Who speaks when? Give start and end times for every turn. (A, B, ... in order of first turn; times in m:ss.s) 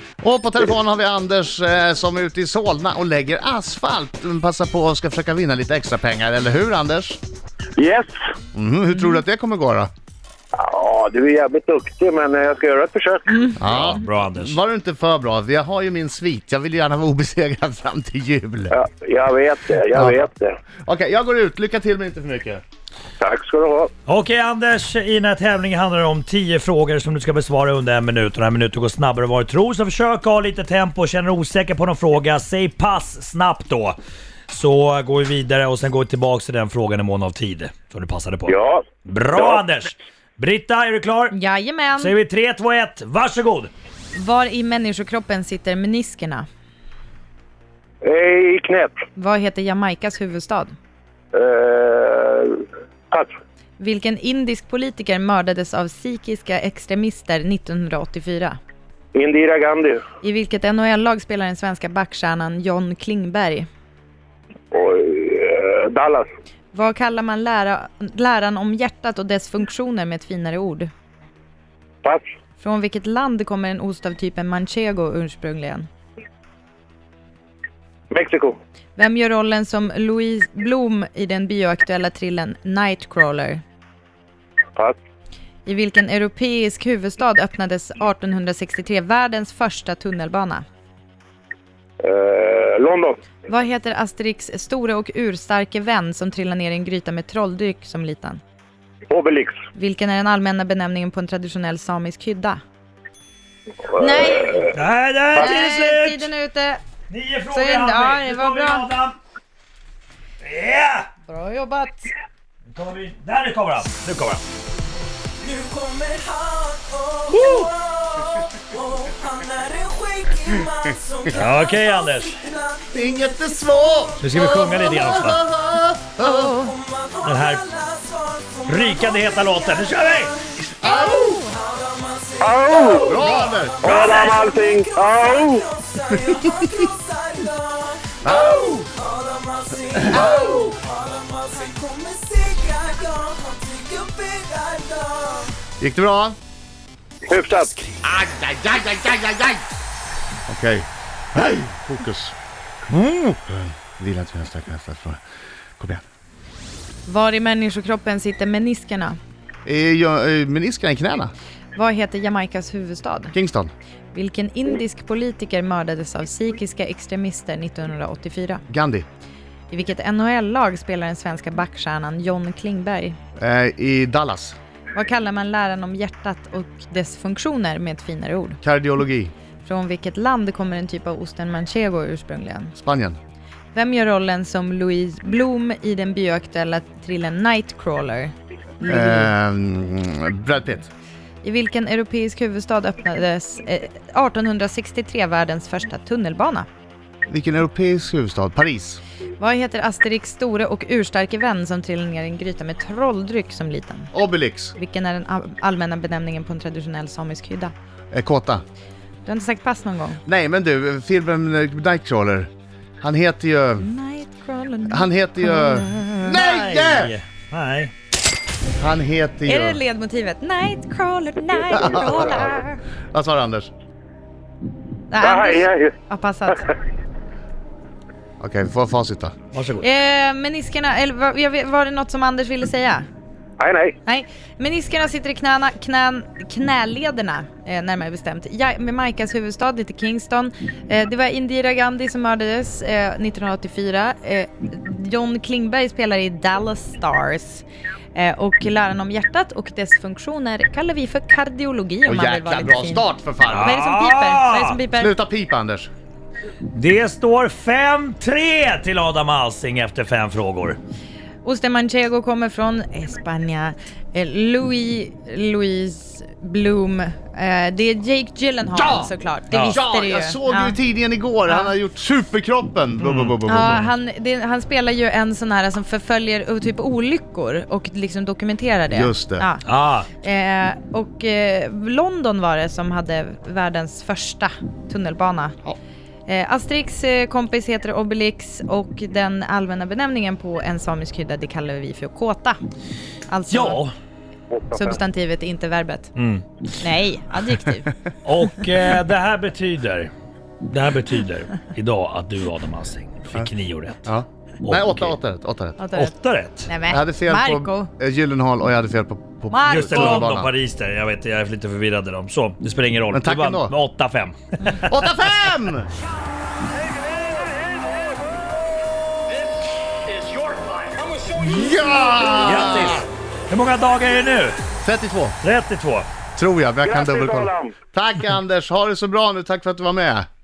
0:00.2-0:07.2 A
0:07.8-0:08.1 B
0:08.5-0:09.9 A
0:10.5-0:13.4 B
0:13.3-0:13.9 C
0:13.6-0:18.8 A
0:13.6-0:14.6 D
0:18.7-0:20.6 B
0:19.9-0:20.2 A
0:20.9-0:22.6 A
0:23.2-0:23.9 B
0:24.0-0:34.0 D
0:34.5-0:41.3 D
0:38.5-0:39.6 B
0:41.3-0:42.1 C
0:42.0-0:43.7 D
0:44.1-0:46.4 C
0:48.0-0:49.0 B
0:49.1-0:50.7 C
0:51.3-0:53.3 B
0:53.8-0:58.6 C
0:59.1-1:00.0 B
1:00.2-1:03.7 C
1:04.7-1:06.3 B
1:06.7-1:10.9 C
1:12.6-1:15.9 C
1:18.1-1:18.6 B
1:19.0-1:23.6 C
1:25.6-1:30.6 C
1:32.0-1:33.2 B
1:33.5-1:38.4 C
1:39.1-1:39.6 B
1:39.7-1:42.6 C
1:43.9-1:44.7 C
1:44.1-1:44.6 B
1:44.7-1:46.3 D
1:45.3-1:46.8 C
1:47.1-1:49.2 D
1:47.5-1:48.9 C
1:50.4-1:51.1 D
1:51.3-1:52.1 C
1:52.7-1:54.4 D
1:55.4-2:04.6 E
2:01.3-2:02.4 D
2:02.9-2:06.5 A
2:04.2-2:05.4 D
2:06.2-2:06.7 C
2:06.6-2:25.5 E
2:07.2-2:07.7 D
2:08.7-2:10.4 D
2:10.8-2:11.4 A
2:10.8-2:11.6 C
2:12.4-2:13.2 B
2:12.9-2:14.0 A
2:13.8-2:15.6 B
2:13.8-2:14.4 D
2:18.2-2:18.9 A
2:20.0-2:20.3 A
2:20.1-2:20.7 C
2:25.8-2:26.4 A
2:27.3-2:27.7 B
2:28.0-2:29.6 A
2:30.5-2:32.3 A
2:32.9-2:33.4 D
2:33.5-2:35.2 A
2:35.8-2:36.0 A
2:37.1-2:39.2 C
2:39.6-2:41.3 A
2:41.7-2:43.3 C
2:43.3-2:43.7 A
2:44.1-2:48.6 C
2:48.7-2:49.1 A
2:49.7-2:53.2 C
2:53.4-2:54.6 A
2:54.9-2:58.6 C
2:58.6-2:59.3 A
2:59.6-3:02.8 C
3:02.8-3:03.2 A
3:03.7-3:09.3 C
3:08.8-3:10.9 A
3:11.4-3:16.7 C
3:17.3-3:19.0 A
3:19.4-3:24.1 C
3:24.1-3:24.7 A
3:24.8-3:27.7 C
3:28.1-3:28.6 A
3:29.2-3:30.2 C
3:30.2-3:32.5 A
3:33.0-3:33.9 A
3:33.8-3:36.6 C
3:34.9-3:37.1 A
3:36.4-3:37.9 D
3:38.8-3:39.8 A
3:39.4-3:42.8 C
3:41.7-3:43.7 A
3:45.1-3:46.7 C
3:45.2-3:45.9 B
3:48.4-3:49.3 A
3:49.5-3:49.8 D
3:49.8-3:53.0 C
3:53.6-3:54.0 B
3:54.0-4:13.0 C
4:12.0-4:13.8 A
4:13.5-4:14.8 D
4:13.6-4:15.1 C
4:14.9-4:15.9 A
4:16.7-4:20.8 D
4:21.4-4:30.8 C
4:28.7-4:29.1 A
4:29.5-4:29.8 D
4:29.7-4:33.9 A
4:31.5-4:31.7 C
4:33.0-4:33.4 D
4:33.4-4:45.6 C
4:38.9-4:39.5 A
4:39.6-4:40.1 D
4:46.3-4:52.6 C
4:53.3-4:53.8 C
4:53.5-4:53.9 D
4:54.5-4:55.0 B
4:54.7-4:56.1 C
4:56.2-4:56.4 D
4:56.7-4:57.9 C
4:58.2-5:00.1 D
5:00.6-5:04.0 D
5:04.0-5:05.8 A
5:04.6-5:05.2 D
5:05.8-5:06.1 C
5:05.9-5:06.7 D
5:06.7-5:07.9 C
5:06.9-5:10.5 A
5:09.5-5:10.3 C
5:09.7-5:14.8 D
5:13.1-5:13.8 A
5:14.7-5:15.9 A
5:21.4-5:23.0 A
5:22.3-5:24.6 D
5:24.8-5:25.4 A
5:25.4-5:26.1 D
5:26.4-5:30.2 A
5:26.8-5:27.7 B